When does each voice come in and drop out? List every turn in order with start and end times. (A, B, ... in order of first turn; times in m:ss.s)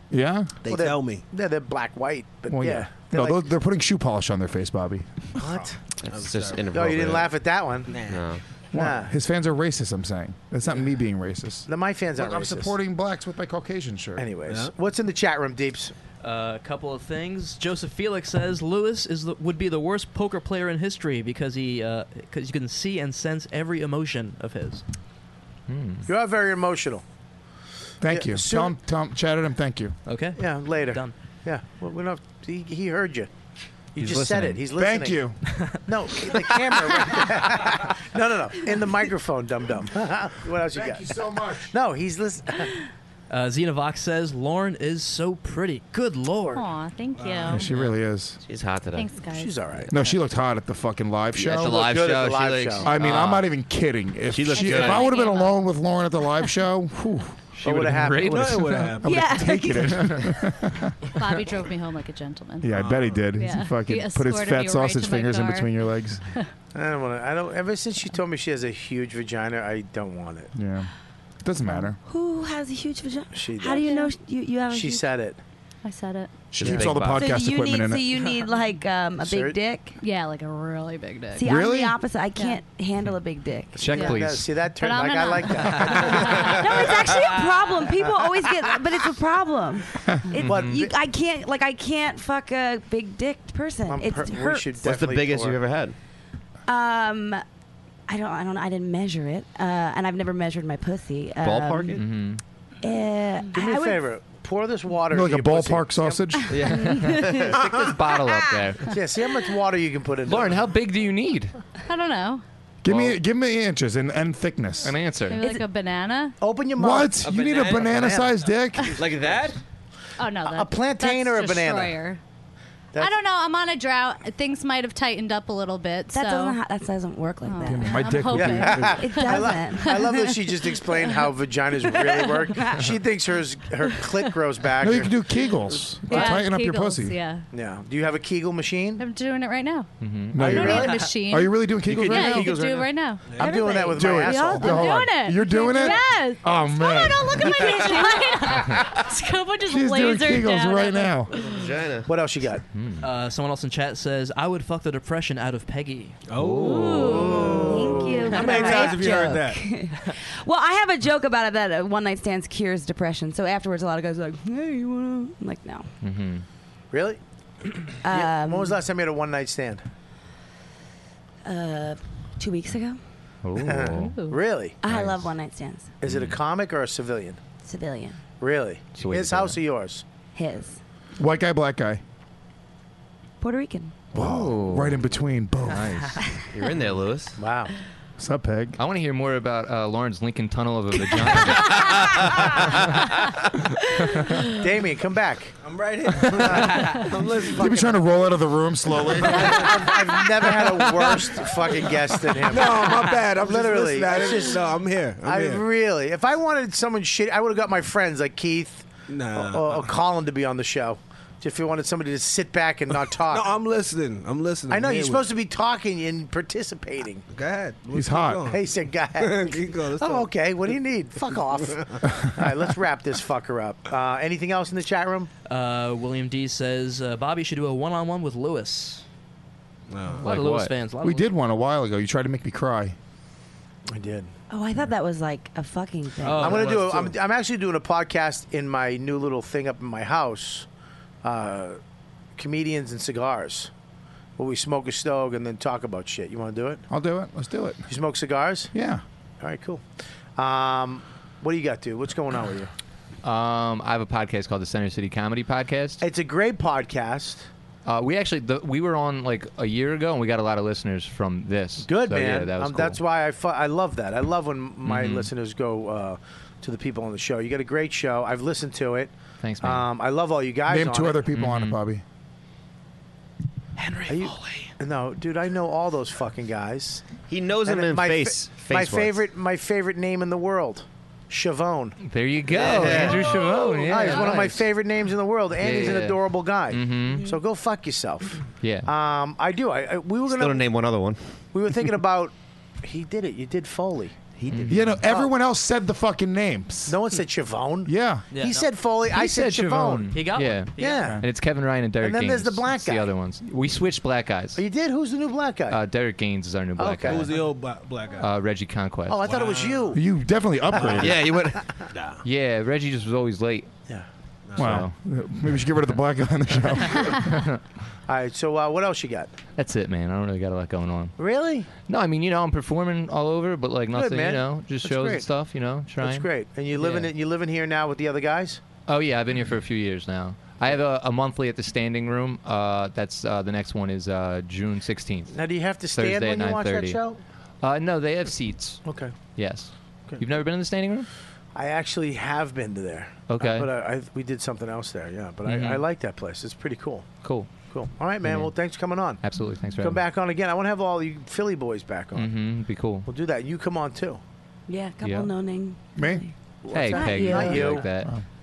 0:00.1-0:00.5 A
0:00.6-0:01.2 B
0:00.7-0:03.4 C
0:02.5-0:05.1 A
0:05.4-0:06.6 B
0:05.4-0:05.7 C
0:06.0-0:07.3 D
0:06.7-0:08.0 C
0:07.9-0:08.3 B
0:08.0-0:08.4 D
0:08.7-0:14.2 A
0:08.7-0:09.1 C
0:11.7-0:12.7 C
0:14.2-0:15.9 C
0:16.2-0:24.8 E
0:25.7-0:26.0 F
0:26.0-0:27.0 C
0:28.0-0:30.0 A
0:28.0-0:28.8 C
0:30.0-0:31.1 E
0:30.4-0:33.3 C
0:33.9-0:35.2 C
0:34.0-0:34.6 F
0:34.8-0:35.4 A
0:35.8-0:42.7 C
0:40.7-0:41.7 A
0:43.3-0:46.6 E
0:46.5-0:47.6 G
0:47.2-0:47.5 B
0:47.5-0:48.4 A
0:48.4-0:49.1 D
0:48.9-0:49.5 G
0:49.3-0:49.9 C
0:49.9-0:51.8 A
0:51.4-0:53.3 D
0:51.4-0:53.4 F
0:51.6-0:52.9 C
0:52.8-1:01.0 A
0:54.3-0:55.1 D
0:54.5-0:55.6 G
0:57.6-0:58.6 C
0:57.8-0:58.4 F
0:58.2-0:59.3 B
0:59.0-1:00.3 H
1:01.2-1:02.7 G
1:02.6-1:06.2 A
1:02.7-1:03.3 B
1:03.4-1:05.8 G
1:06.7-1:10.5 C
1:10.5-1:10.9 A
1:11.4-1:12.0 A
1:12.0-1:15.1 H
1:13.3-1:13.8 C
1:13.8-1:14.1 G
1:14.7-1:15.4 C
1:15.8-1:16.3 G
1:16.5-1:18.0 A
1:16.6-1:17.2 D
1:16.6-1:16.9 C
1:17.1-1:19.9 H
1:19.2-1:19.6 C
1:20.0-1:21.5 G
1:21.3-1:24.0 H
1:21.4-1:22.0 A
1:23.8-1:24.5 F
1:23.8-1:27.0 C
1:23.9-1:24.2 G
1:24.8-1:26.7 G
1:26.6-1:34.7 H
1:30.4-1:30.8 F
1:30.4-1:30.9 C
1:33.9-1:35.6 C
1:34.8-1:35.9 D
1:36.7-1:37.4 H
1:38.1-1:42.0 H
1:41.4-1:42.0 D
1:41.9-1:42.4 F
1:42.8-1:44.0 H
1:43.5-1:46.3 C
1:45.1-1:46.6 A
1:46.5-1:47.8 D
1:46.7-1:47.5 H
1:46.8-1:47.2 F
1:47.6-1:47.9 C
1:47.8-1:49.0 F
1:48.9-1:50.6 C
1:50.2-1:51.6 F
1:51.8-1:52.4 G
1:52.8-1:54.9 A
1:52.9-1:53.2 F
1:54.8-1:55.4 F
1:55.3-1:56.3 G
1:56.4-1:58.3 C
1:56.8-1:59.0 A
1:57.2-1:58.3 D
1:59.0-1:59.6 D
2:00.2-2:02.2 G
2:00.5-2:02.0 C
2:03.0-2:06.6 G
2:06.1-2:08.1 H
2:07.4-2:09.5 G
2:07.6-2:09.0 A
2:08.3-2:15.2 C
2:09.0-2:10.4 H
2:12.6-2:13.0 H
2:14.8-2:17.2 A
2:16.1-2:17.4 G
2:17.5-2:19.0 C
2:19.0-2:31.5 G
2:20.0-2:20.6 F
2:20.3-2:22.5 A
2:20.4-2:21.0 C
2:21.9-2:24.8 C
2:23.9-2:27.8 A
2:27.8-2:28.2 H
2:28.6-2:28.9 F
2:29.6-2:31.3 A
2:31.4-2:32.1 D
2:32.0-2:32.6 C
2:32.7-2:33.0 F
2:33.0-2:36.2 E
2:36.3-2:39.6 B
2:36.4-2:37.2 F
2:36.6-2:37.7 G
2:37.0-2:45.9 H
2:37.4-2:38.4 C
2:38.3-2:38.9 G
2:46.0-2:46.4 F
2:46.9-2:47.2 C
2:48.0-2:48.8 H
2:48.1-2:49.8 C
2:51.4-2:53.0 H
2:53.4-2:54.2 F
2:53.6-2:54.8 C
2:53.9-2:54.4 G
2:54.8-2:55.9 H
2:54.8-2:55.3 F
2:56.0-2:57.4 C
2:56.0-2:56.4 F
2:57.6-2:58.2 H
2:58.4-3:00.0 C
2:59.0-2:59.6 F
3:00.3-3:00.8 H
3:01.2-3:02.0 A
3:03.4-3:03.9 H
3:04.1-3:05.0 F
3:04.1-3:05.9 A
3:05.7-3:06.2 F
3:06.5-3:07.4 D
3:07.4-3:07.7 C
3:08.2-3:08.8 A
3:08.8-3:12.9 F
3:14.5-3:15.6 C
3:15.6-3:18.3 B
3:16.4-3:18.0 C
3:17.6-3:19.6 A
3:19.0-3:19.9 B
3:19.2-3:24.6 C
3:22.4-3:25.6 B
3:25.2-3:33.5 C
3:29.1-3:29.9 B
3:33.2-3:35.3 B
3:34.7-3:37.2 C
3:37.3-3:38.6 B
3:37.9-3:38.5 A
3:38.5-3:45.3 C
3:39.2-3:40.3 B
3:41.6-3:42.0 B
3:45.5-3:49.0 E
3:49.9-3:50.3 B
3:50.2-3:51.3 E
3:50.2-3:50.7 F
3:51.0-3:53.0 A
3:53.9-3:54.3 C
3:54.5-3:56.6 H
3:56.2-3:57.1 E
3:56.4-4:00.7 C
3:56.5-3:57.1 B
4:01.2-4:01.8 C
4:02.4-4:03.7 C
4:04.4-4:06.8 C
4:06.9-4:07.8 A
4:07.9-4:08.7 C
4:08.7-4:09.0 A
4:09.4-4:09.8 C
4:10.4-4:12.7 C
4:13.2-4:16.0 F
4:16.0-4:17.5 C
4:17.8-4:23.0 F
4:21.8-4:31.2 C
4:24.8-4:25.3 F
4:29.4-4:29.9 F
4:30.7-4:32.0 A
4:31.3-4:31.8 F
4:33.8-4:34.7 E
4:34.1-4:37.0 C
4:37.3-4:39.2 D
4:37.6-4:42.0 C
4:42.0-4:44.6 F
4:42.5-4:43.4 B
4:42.6-4:50.7 C
4:42.6-4:43.2 D
4:45.6-4:47.3 F
4:48.6-4:48.9 F
4:50.3-4:51.2 D
4:51.5-4:54.2 C
4:54.4-4:55.0 D
4:54.5-4:54.9 F
4:54.7-4:57.0 A
4:55.0-4:55.3 C
4:56.9-5:01.2 C
4:57.9-4:58.2 A
4:58.3-4:58.7 E
4:59.1-5:04.6 F
5:00.1-5:01.1 E
5:02.0-5:03.1 C
5:04.6-5:05.8 C
5:05.7-5:07.4 F
5:06.8-5:07.3 C
5:07.0-5:08.3 B
5:08.2-5:09.4 F
5:09.1-5:10.0 C
5:09.2-5:10.0 B
5:09.9-5:11.3 A
5:10.7-5:11.2 C
5:10.8-5:11.2 B
5:11.0-5:11.6 D
5:11.9-5:12.2 B
5:12.2-5:13.7 F
5:14.5-5:14.8 B
5:14.6-5:14.9 F
5:14.6-5:17.4 A
5:17.3-5:17.6 F
5:18.1-5:19.3 C
5:19.6-5:21.1 F
5:21.2-5:21.7 C
5:21.8-5:27.1 F
5:23.9-5:25.3 C
5:26.0-5:28.6 C
5:28.9-5:35.3 F
5:35.3-5:37.2 C
5:35.9-5:37.0 F
5:37.6-5:38.8 F
5:38.8-5:39.1 C
5:39.4-5:41.1 F
5:41.5-5:47.0 C
5:43.3-5:43.7 F
5:45.4-5:45.8 F
5:47.2-5:47.5 F
5:47.7-5:49.2 C
5:48.2-5:48.5 F
5:49.2-5:50.0 F
5:49.8-5:52.3 C
5:52.1-5:53.1 F
5:53.0-5:54.2 C
5:54.7-5:56.3 H
5:55.0-5:55.3 F
5:56.0-5:56.2 A
5:56.6-5:57.9 C
5:56.7-5:58.1 F
5:56.9-5:57.8 H